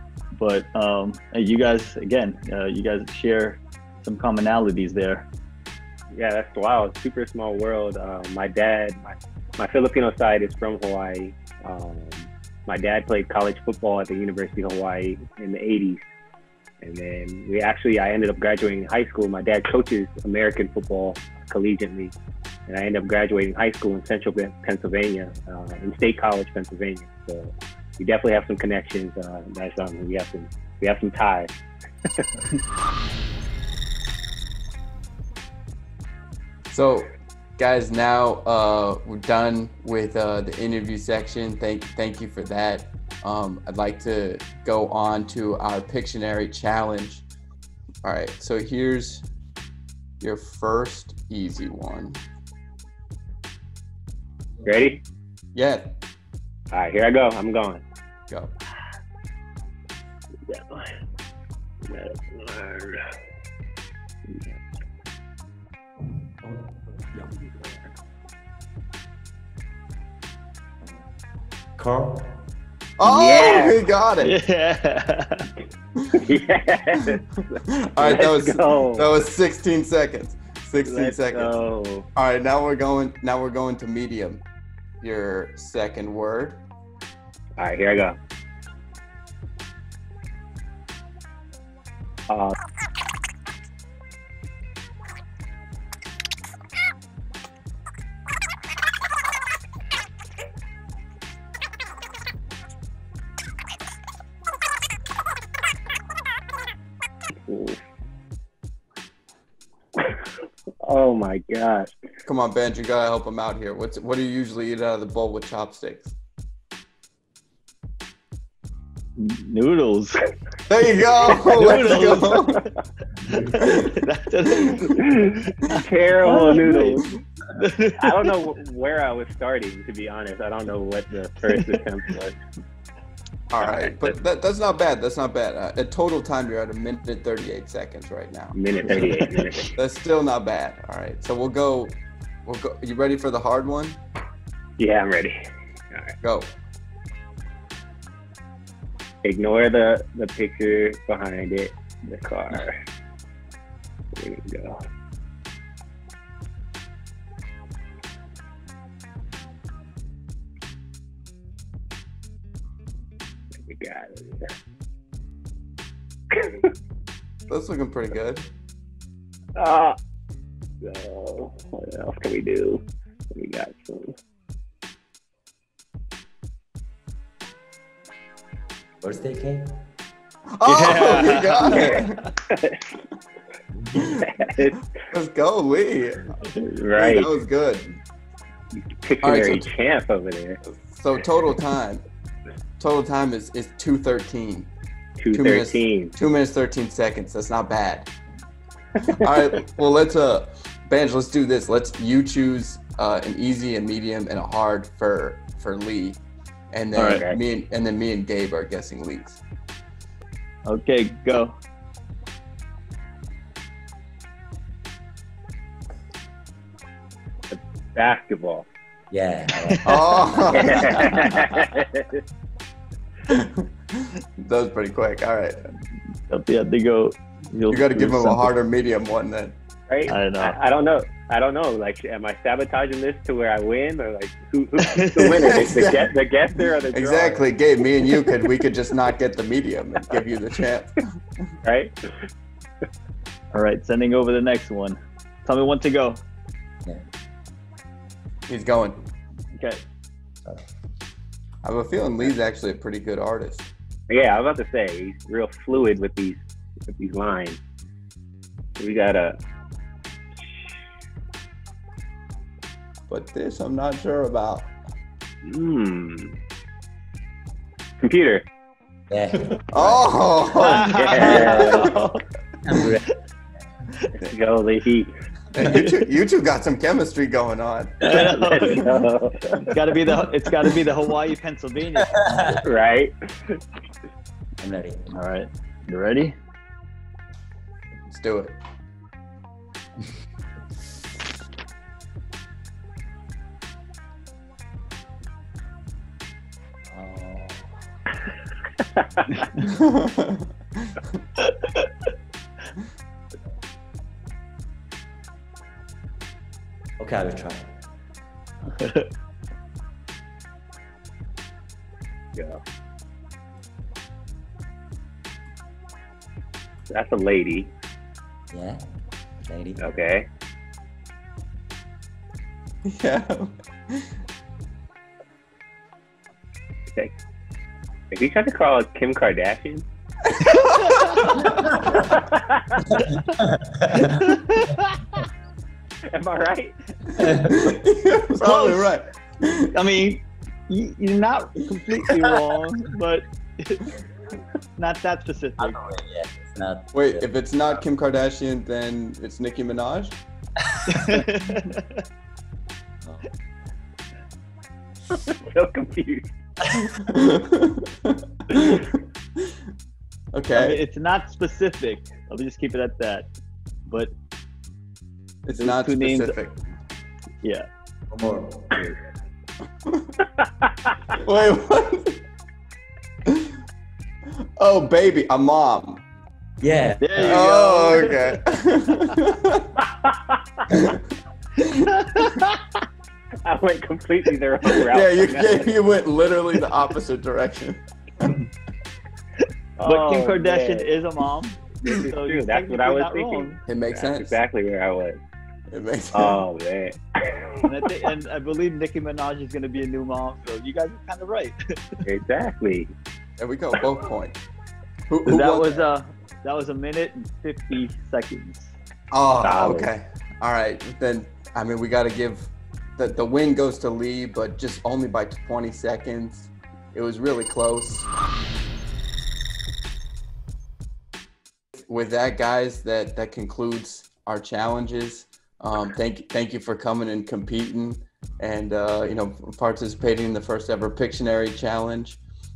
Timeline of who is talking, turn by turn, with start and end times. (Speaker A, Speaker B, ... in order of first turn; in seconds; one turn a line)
Speaker A: 0.3-5.3
Speaker B: 6.1-16.0
Speaker B: 16.8-22.1
Speaker B: 22.7-31.5
Speaker C: 36.7-47.2
Speaker C: 48.0-49.2
Speaker C: 50.2-52.2
Speaker B: 54.6-55.0
Speaker C: 55.5-55.9
Speaker B: 56.7-57.8
Speaker B: 60.5-60.9
Speaker B: 61.9-63.1
Speaker D: 66.4-67.6
Speaker D: 71.8-72.5
Speaker C: 73.0-74.3
Speaker B: 73.0-73.8
Speaker A: 74.2-75.5
Speaker B: 76.2-77.2
Speaker C: 77.7-81.5
Speaker B: 78.0-79.2
Speaker B: 80.8-82.1
Speaker C: 82.1-84.4
Speaker C: 85.0-86.6
Speaker B: 87.6-88.2
Speaker B: 92.3-92.5
Speaker B: 107.5-107.8
Speaker B: 110.8-111.9
Speaker C: 112.2-116.1
Speaker A: 119.2-120.2
Speaker C: 120.7-122.6
Speaker A: 121.3-122.7
Speaker A: 123.3-125.1
Speaker C: 123.3-123.8
Speaker B: 125.0-127.1
Speaker A: 125.7-128.4
Speaker B: 128.0-132.3
Speaker C: 133.5-139.2
Speaker B: 133.6-134.1
Speaker B: 138.5-139.7
Speaker C: 139.7-144.0
Speaker B: 144.8-145.3
Speaker C: 146.2-146.5
Speaker B: 149.2-152.7
Speaker B: 154.2-154.8
Speaker B: 163.6-164.4
Speaker B: 166.3-166.6
Speaker C: 167.5-168.5
Speaker B: 169.6-169.9
Speaker B: 170.8-174.1
Speaker D: 179.0-179.8
Speaker C: 180.6-182.2
Speaker A: 180.6-182.1
Speaker B: 182.5-182.8
Speaker D: 183.8-184.2
Speaker B: 184.2-184.8
Speaker C: 185.1-186.4
Speaker B: 186.6-187.3
Speaker C: 187.0-187.9
Speaker B: 188.7-190.6
Speaker C: 189.2-189.7
Speaker C: 190.7-192.0
Speaker C: 192.8-194.7
Speaker B: 195.2-196.1
Speaker C: 195.3-198.1
Speaker C: 199.2-209.4
Speaker A: 206.9-207.2
Speaker A: 210.7-211.6
Speaker B: 217.5-218.7
Speaker D: 219.1-220.8
Speaker C: 219.8-221.1
Speaker B: 220.5-222.1
Speaker A: 221.1-221.7
Speaker C: 223.3-225.7
Speaker A: 226.3-228.5
Speaker C: 227.7-229.6
Speaker B: 229.9-237.5
Speaker A: 230.1-230.6
Speaker A: 234.8-235.9
Speaker C: 235.4-236.1
Speaker C: 236.9-241.0
Speaker B: 241.6-241.9
Speaker A: 243.5-246.2
Speaker C: 248.5-249.1
Speaker A: 249.5-249.8
Speaker C: 251.6-253.7
Speaker B: 254.1-257.6
Speaker B: 258.8-259.4
Speaker B: 260.4-260.7
Speaker C: 263.1-264.7
Speaker B: 265.4-266.4
Speaker B: 268.0-268.4
Speaker D: 269.1-270.1
Speaker C: 269.7-271.9
Speaker A: 270.5-272.2
Speaker B: 270.9-271.9
Speaker D: 271.5-272.0
Speaker D: 272.6-273.1
Speaker A: 272.7-273.0
Speaker B: 274.1-275.1
Speaker C: 275.5-278.8
Speaker A: 278.0-278.9
Speaker B: 278.1-279.7
Speaker A: 279.7-282.6
Speaker D: 282.2-282.5
Speaker B: 282.5-283.6
Speaker D: 284.6-285.1
Speaker A: 285.1-286.3
Speaker C: 288.1-288.6
Speaker D: 296.9-297.8
Speaker C: 299.6-300.9
Speaker A: 301.4-301.9
Speaker D: 307.0-307.7
Speaker A: 308.7-309.1
Speaker B: 316.9-317.7
Speaker D: 318.5-318.8
Speaker D: 319.4-319.8
Speaker B: 319.8-320.3
Speaker C: 322.9-324.1
Speaker B: 328.1-329.8
Speaker C: 330.3-331.7
Speaker A: 330.6-331.6
Speaker B: 332.0-332.9
Speaker D: 333.6-334.0
Speaker A: 333.9-335.2
Speaker B: 336.1-336.8
Speaker C: 337.1-339.7
Speaker D: 337.2-337.5
Speaker A: 338.4-339.0
Speaker A: 339.7-343.9
Speaker A: 344.8-345.8
Speaker D: 345.6-347.8
Speaker C: 346.9-350.2
Speaker A: 350.9-352.0
Speaker D: 353.0-353.3
Speaker B: 355.3-356.3
Speaker C: 356.9-358.8
Speaker C: 360.3-360.8
Speaker A: 360.5-363.3
Speaker A: 363.9-364.1
Speaker C: 365.4-366.6
Speaker A: 365.6-366.3
Speaker D: 368.1-369.0
Speaker C: 371.1-372.1
Speaker C: 374.6-376.0
Speaker D: 376.6-377.4
Speaker A: 377.0-378.3
Speaker C: 377.2-379.7
Speaker B: 380.0-380.4
Speaker C: 380.7-381.0
Speaker C: 381.6-382.2
Speaker A: 381.9-382.6
Speaker B: 383.4-385.8
Speaker C: 384.9-388.4
Speaker B: 389.8-390.9
Speaker A: 389.8-393.6
Speaker B: 391.8-395.2
Speaker C: 393.6-394.4
Speaker C: 395.7-396.4
Speaker B: 396.1-397.4
Speaker A: 397.6-402.0
Speaker B: 402.1-402.9
Speaker C: 403.4-404.4
Speaker C: 405.1-405.9
Speaker A: 405.2-408.7
Speaker C: 409.1-418.1
Speaker B: 409.4-409.9
Speaker C: 421.9-432.2